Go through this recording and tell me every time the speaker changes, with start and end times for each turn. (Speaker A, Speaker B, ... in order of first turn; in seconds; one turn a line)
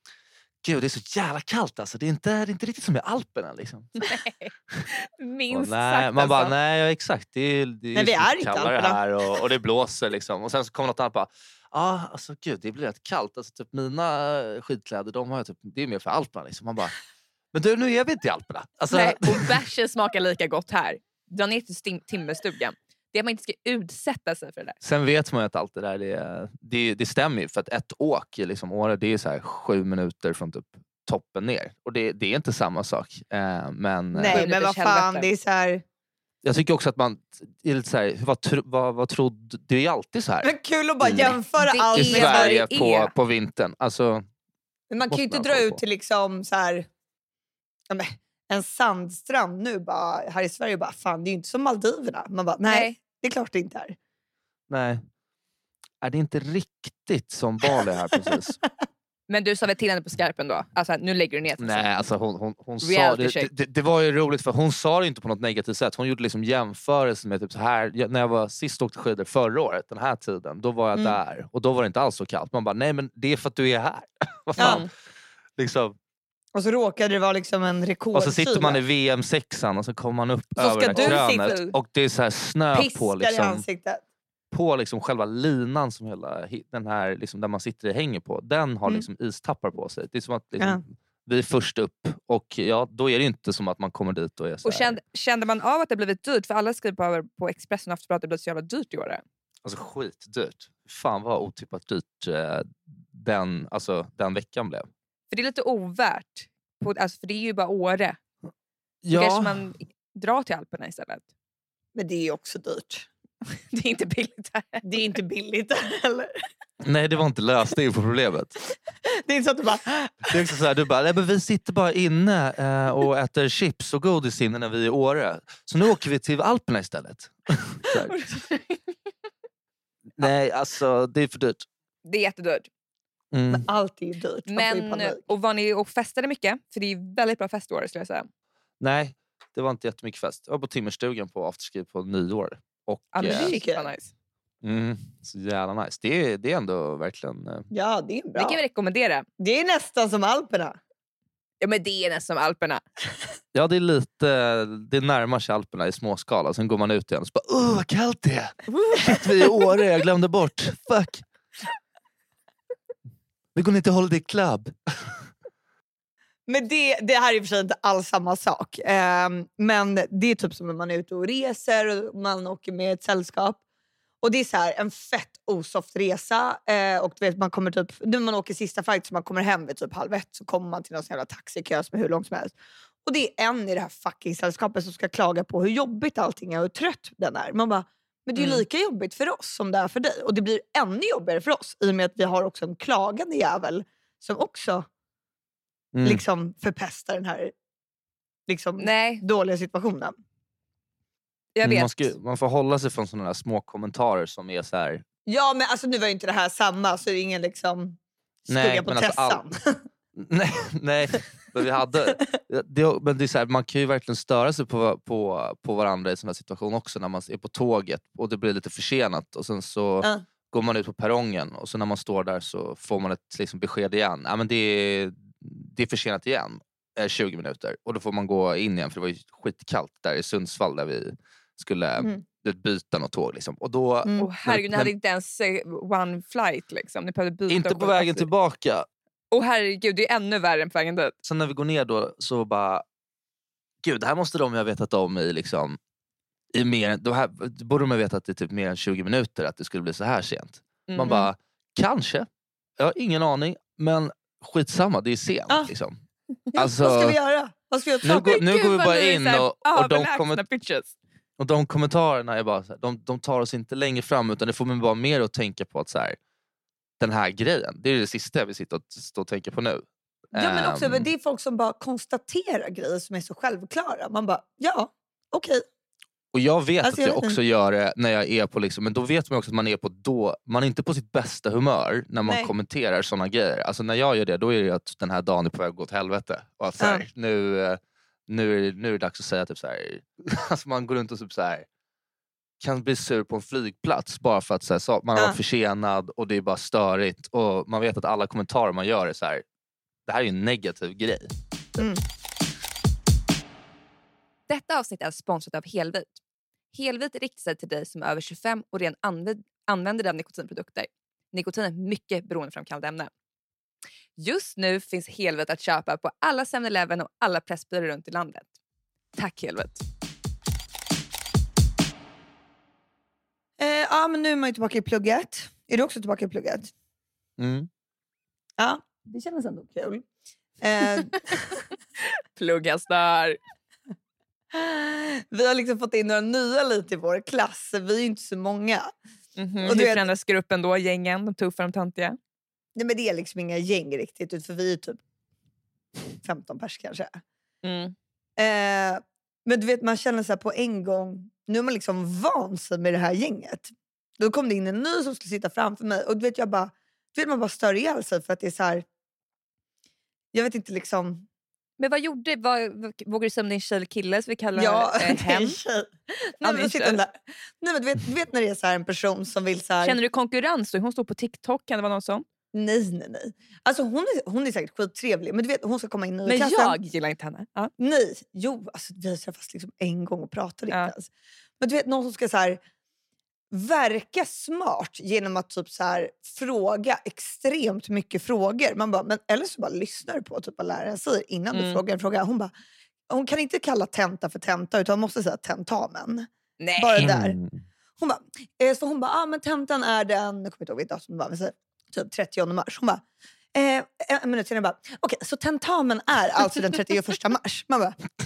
Speaker A: 0.6-4.1
Speaker B: 4.0-6.5
Speaker A: 5.5-17.0
Speaker C: 7.9-9.0
Speaker A: 17.5-19.6
Speaker B: 18.9-24.8
Speaker A: 24.8-34.4
Speaker C: 34.1-35.8
Speaker B: 34.3-35.3
Speaker A: 36.4-40.5
Speaker C: 40.4-42.9
Speaker A: 41.0-41.4
Speaker B: 41.6-43.1
Speaker A: 41.9-44.2
Speaker C: 44.9-46.9
Speaker A: 45.1-45.8
Speaker C: 47.9-54.0
Speaker B: 52.7-52.9
Speaker A: 54.7-55.0
Speaker A: 56.0-58.6
Speaker B: 59.3-61.9
Speaker A: 61.6-74.9
Speaker B: 62.8-63.5
Speaker C: 74.6-74.8
Speaker B: 74.6-74.9
Speaker A: 75.6-75.9
Speaker C: 76.5-78.8
Speaker A: 78.1-83.6
Speaker C: 80.6-81.2
Speaker B: 80.9-81.7
Speaker C: 82.7-84.0
Speaker A: 84.5-95.0
Speaker B: 94.6-99.2
Speaker A: 99.6-104.9
Speaker B: 105.3-108.2
Speaker A: 109.0-109.6
Speaker B: 109.1-111.2
Speaker C: 111.9-113.1
Speaker B: 113.7-115.0
Speaker C: 114.8-116.4
Speaker A: 116.8-118.5
Speaker C: 119.1-120.5
Speaker A: 120.3-128.2
Speaker B: 128.1-128.8
Speaker A: 130.2-131.7
Speaker B: 132.0-132.7
Speaker A: 133.3-133.7
Speaker C: 133.5-135.2
Speaker B: 134.5-138.3
Speaker A: 138.8-143.5
Speaker B: 143.1-144.1
Speaker C: 143.2-143.9
Speaker A: 144.6-147.7
Speaker C: 147.7-148.6
Speaker B: 148.3-149.2
Speaker C: 149.4-150.8
Speaker B: 151.6-152.8
Speaker A: 153.5-161.2
Speaker B: 158.7-159.2
Speaker A: 163.5-165.2
Speaker C: 166.5-173.6
Speaker C: 174.2-194.9
Speaker B: 188.4-188.6
Speaker A: 195.9-196.2
Speaker C: 196.0-197.5
Speaker C: 198.5-200.1
Speaker B: 198.8-199.2
Speaker B: 201.6-202.1
Speaker A: 201.6-205.0
Speaker C: 205.2-209.8
Speaker A: 208.5-209.4
Speaker A: 210.2-234.9
Speaker B: 234.2-238.3
Speaker A: 237.5-238.8
Speaker B: 239.3-241.1
Speaker A: 241.2-242.8
Speaker A: 243.8-245.8
Speaker A: 246.5-252.3
Speaker B: 250.9-251.3
Speaker A: 252.8-256.0
Speaker A: 256.5-257.1
Speaker C: 256.5-258.4
Speaker A: 258.0-260.4
Speaker B: 258.1-260.9
Speaker A: 261.4-266.2
Speaker A: 267.0-271.1
Speaker C: 270.3-275.6
Speaker A: 276.3-291.6
Speaker C: 276.8-277.4
Speaker C: 282.2-282.5
Speaker C: 286.8-287.0
Speaker A: 292.6-299.4
Speaker A: 300.1-301.3
Speaker C: 301.8-302.0
Speaker B: 304.5-306.1
Speaker B: 306.7-313.1
Speaker B: 314.2-318.5
Speaker B: 319.1-319.8
Speaker C: 323.6-326.7
Speaker A: 327.4-327.7
Speaker C: 328.6-330.1
Speaker C: 330.6-331.3
Speaker B: 332.3-333.4
Speaker C: 334.5-338.9
Speaker B: 339.4-342.2
Speaker C: 339.6-340.0
Speaker C: 342.7-345.0
Speaker C: 346.2-347.2
Speaker B: 347.6-347.9
Speaker C: 348.4-358.8
Speaker C: 360.3-361.2
Speaker B: 361.8-365.6
Speaker C: 364.5-369.9
Speaker B: 366.4-367.0
Speaker B: 369.8-372.2
Speaker C: 372.5-376.8
Speaker B: 376.2-377.7
Speaker C: 377.8-382.6
Speaker C: 383.5-392.5
Speaker B: 391.5-391.8
Speaker C: 393.1-397.4
Speaker B: 396.6-397.1
Speaker A: 397.0-397.6
Speaker C: 398.0-403.0
Speaker C: 403.5-408.0